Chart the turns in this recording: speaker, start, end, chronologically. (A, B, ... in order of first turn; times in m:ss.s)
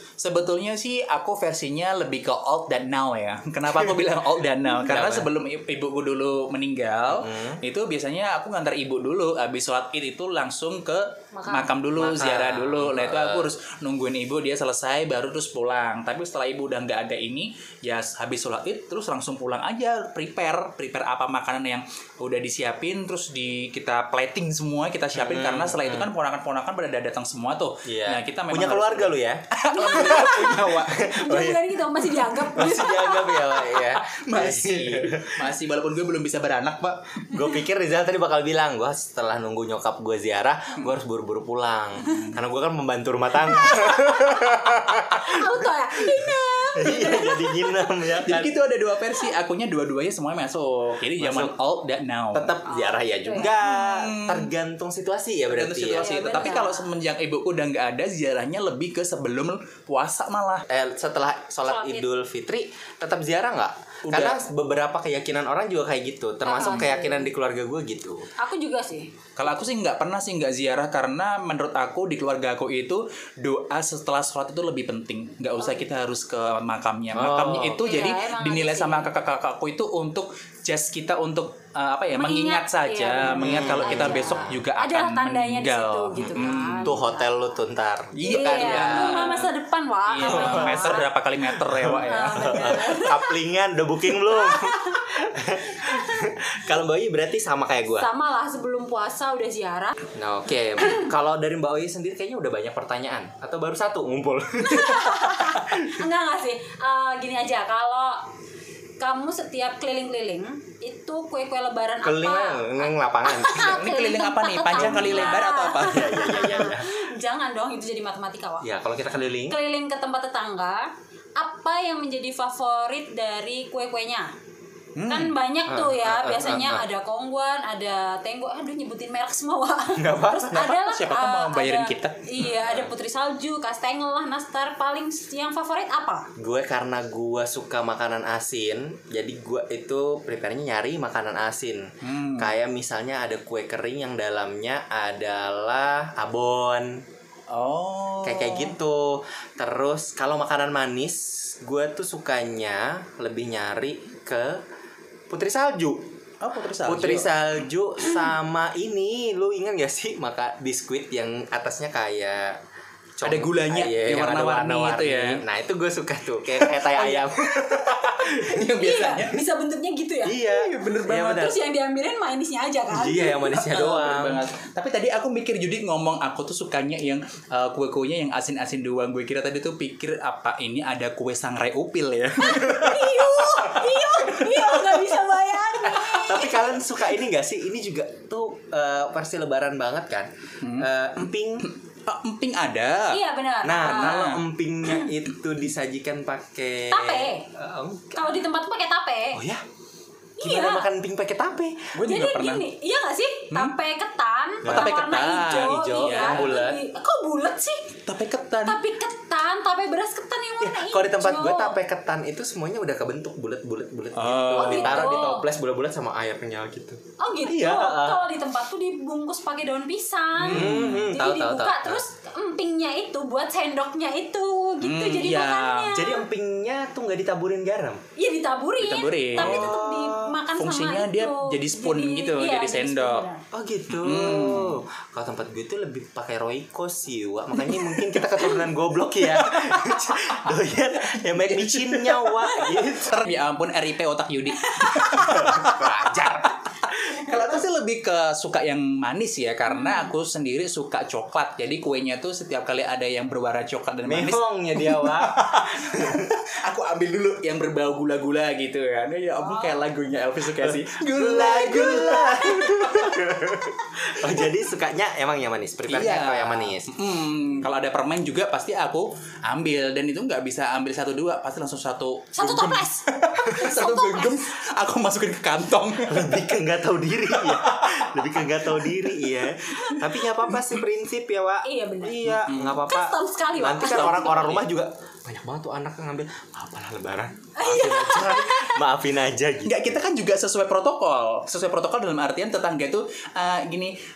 0:00.2-0:31.0 A
0:03.7-0:04.0 B
0:04.8-0:05.3 B
0:07.1-0:07.6 B
0:11.3-0:11.8 C
0:12.0-0:13.5 B
0:25.2-0:26.1 B
0:27.8-0:31.8 B
0:29.7-0:33.5 C
0:32.5-0:35.4 B
0:33.8-0:37.4 A
0:37.3-0:48.5 B
0:43.6-0:43.9 A
0:45.1-0:47.8 C
0:48.2-0:52.5 A
0:51.2-0:51.5 B
0:52.3-0:56.5 B
0:52.7-0:53.6 C
0:53.6-0:54.5 A
0:55.5-1:00.6 A
0:56.0-0:56.9 C
1:00.7-1:08.2 B
1:01.6-1:02.1 C
1:04.1-1:04.4 A
1:06.4-1:07.3 C
1:08.4-1:09.1 C
1:09.4-1:27.0 A
1:17.1-1:17.8 B
1:17.8-1:19.1 C
1:22.1-1:27.3 C
1:23.3-1:24.6 B
1:26.2-1:29.4 B
1:28.2-1:29.5 A
1:28.2-1:31.1 C
1:30.1-1:32.8 A
1:30.2-1:31.0 B
1:31.6-1:38.1 B
1:32.0-1:33.4 C
1:34.3-1:35.0 C
1:38.0-1:39.9 C
1:40.1-1:45.9 B
1:44.6-1:48.2 C
1:49.0-1:58.7 C
1:52.0-1:53.9 B
1:53.5-1:56.2 A
1:54.8-1:56.9 B
1:58.6-1:59.6 B
1:59.5-2:04.3 C
2:05.0-2:05.3 A
2:05.0-2:16.3 C
2:05.7-2:06.9 B
2:09.9-2:10.8 B
2:10.7-2:12.2 A
2:12.4-2:12.9 B
2:16.4-2:21.8 B
2:22.0-2:22.5 A
2:22.4-2:27.0 B
2:27.5-2:28.7 A
2:28.2-2:34.6 B
2:35.3-2:36.1 B
2:36.4-2:37.3 A
2:36.8-2:42.6 B
2:43.2-2:48.6 B
2:43.2-2:45.4 A
2:46.6-2:49.4 A
2:48.7-2:50.5 C
2:50.2-2:51.6 B
2:50.5-2:51.4 A
2:51.1-2:53.4 C
2:52.9-2:54.4 B
2:53.4-3:04.8 A
3:02.4-3:06.8 C
3:05.8-3:11.7 B
3:10.6-3:10.9 A
3:11.6-3:13.2 A
3:13.1-3:14.2 C
3:13.6-3:18.4 B
3:13.7-3:14.4 A
3:16.9-3:17.4 C
3:18.1-3:19.4 C
3:19.3-3:19.6 B
3:20.4-3:20.9 C
3:20.4-3:21.9 B
3:21.9-3:22.6 A
3:22.0-3:27.9 C
3:24.6-3:26.8 B
3:24.6-3:26.6 A
3:28.0-3:28.8 A
3:28.6-3:31.8 C
3:30.6-3:38.2 B
3:34.1-3:35.3 A
3:34.6-3:35.4 C
3:37.2-3:46.2 C
3:40.4-3:41.1 A
3:40.5-3:42.0 B
3:44.8-3:45.9 A
3:45.9-3:48.0 B
3:48.2-3:53.4 C
3:48.8-3:49.7 A
3:49.3-3:50.4 B
3:50.6-3:53.2 A
3:53.5-4:03.3 B
3:53.9-3:54.8 A
3:57.6-3:58.6 A
3:59.4-4:00.4 A
4:01.2-4:23.3 A
4:04.6-4:05.4 C
4:05.0-4:06.5 B
4:09.7-4:10.1 C
4:14.0-4:16.3 B
4:19.3-4:19.8 C
4:20.6-4:26.9 B
4:25.9-4:36.5 A
4:32.4-4:34.4 C
4:36.1-4:50.0 B
4:37.3-4:40.6 A
4:41.6-4:44.5 C
4:42.2-4:42.8 A
4:43.8-4:44.7 A
4:47.6-4:48.8 C
4:49.6-4:54.0 A